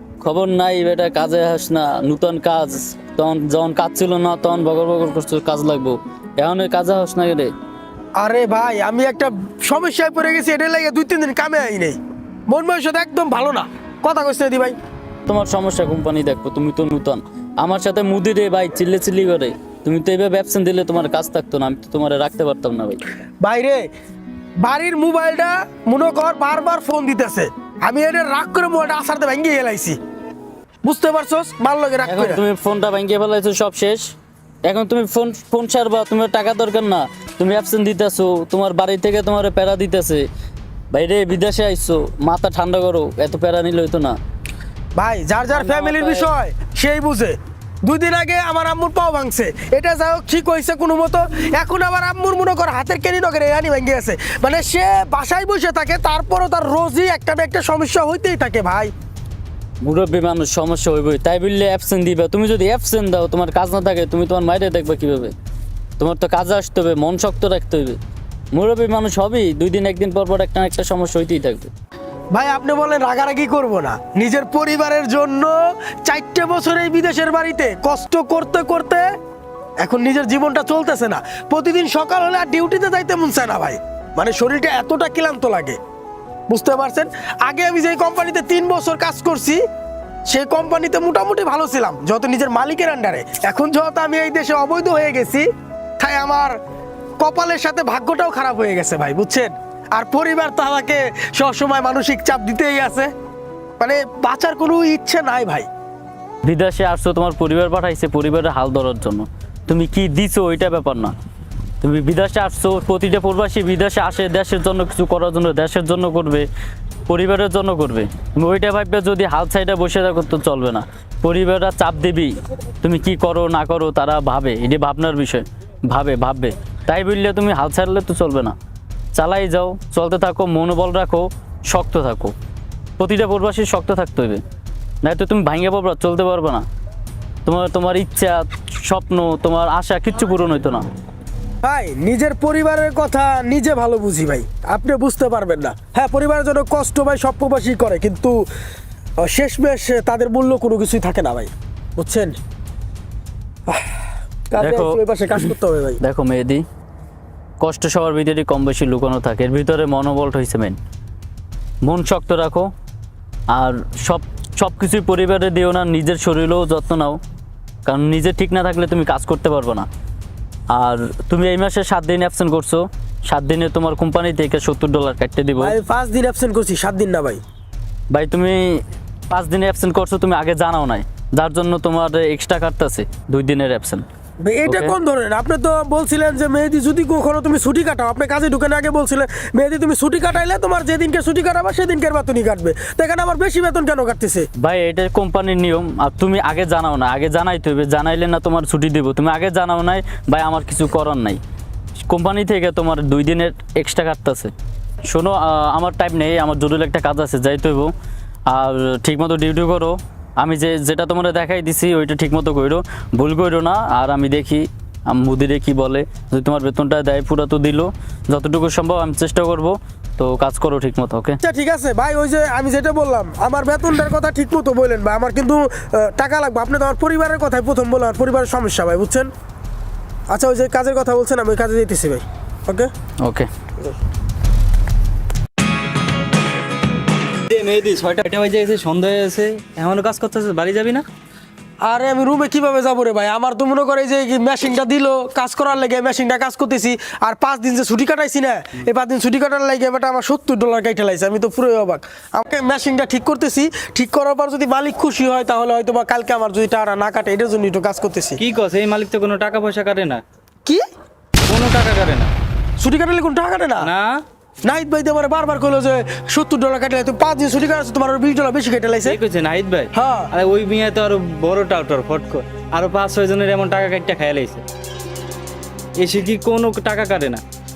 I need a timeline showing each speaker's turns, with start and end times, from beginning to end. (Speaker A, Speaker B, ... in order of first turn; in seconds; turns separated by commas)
Speaker A: 0.2-7.5, Speaker B: 8.2-14.8, Speaker A: 15.3-23.0, Speaker B: 23.4-23.9, Speaker B: 24.6-30.0, Speaker B: 30.8-32.4, Speaker A: 32.1-34.1, Speaker A: 34.6-40.3, Speaker A: 40.9-44.2, Speaker B: 45.0-58.9, Speaker A: 45.5-46.3, Speaker A: 59.8-65.3, Speaker A: 66.0-68.0, Speaker A: 68.5-71.7, Speaker B: 72.3-79.0, Speaker B: 79.8-85.8, Speaker B: 86.5-89.6, Speaker B: 90.3-95.5, Speaker B: 96.0-96.6, Speaker B: 97.2-103.1, Speaker B: 103.8-105.7, Speaker A: 106.4-111.1, Speaker A: 111.8-116.5, Speaker A: 117.1-128.6, Speaker A: 129.1-132.3, Speaker A: 133.0-134.4, Speaker A: 135.0-136.7, Speaker A: 137.5-140.8, Speaker B: 141.6-148.5, Speaker B: 149.2-152.4, Speaker B: 153.7-154.0, Speaker B: 154.5-156.0, Speaker A: 154.6-155.4, Speaker A: 156.0-156.6, Speaker A: 157.6-160.8, Speaker A: 161.8-162.7, Speaker A: 163.5-167.2, Speaker A: 167.9-169.9, Speaker A: 170.7-175.7, Speaker B: 175.6-177.4, Speaker A: 178.1-184.0, Speaker B: 184.4-194.5, Speaker A: 184.7-184.9, Speaker A: 194.6-201.4, Speaker A: 202.0-204.5, Speaker A: 205.1-207.9, Speaker A: 208.5-221.4, Speaker B: 221.4-229.3, Speaker B: 230.3-232.9, Speaker A: 233.2-233.5, Speaker C: 237.5-241.1, Speaker B: 241.8-258.4, Speaker C: 258.4-260.2, Speaker C: 261.5-262.3, Speaker B: 262.8-263.9, Speaker C: 263.8-264.2, Speaker B: 264.6-269.2, Speaker C: 269.0-274.6, Speaker B: 269.9-270.3, Speaker C: 276.0-277.4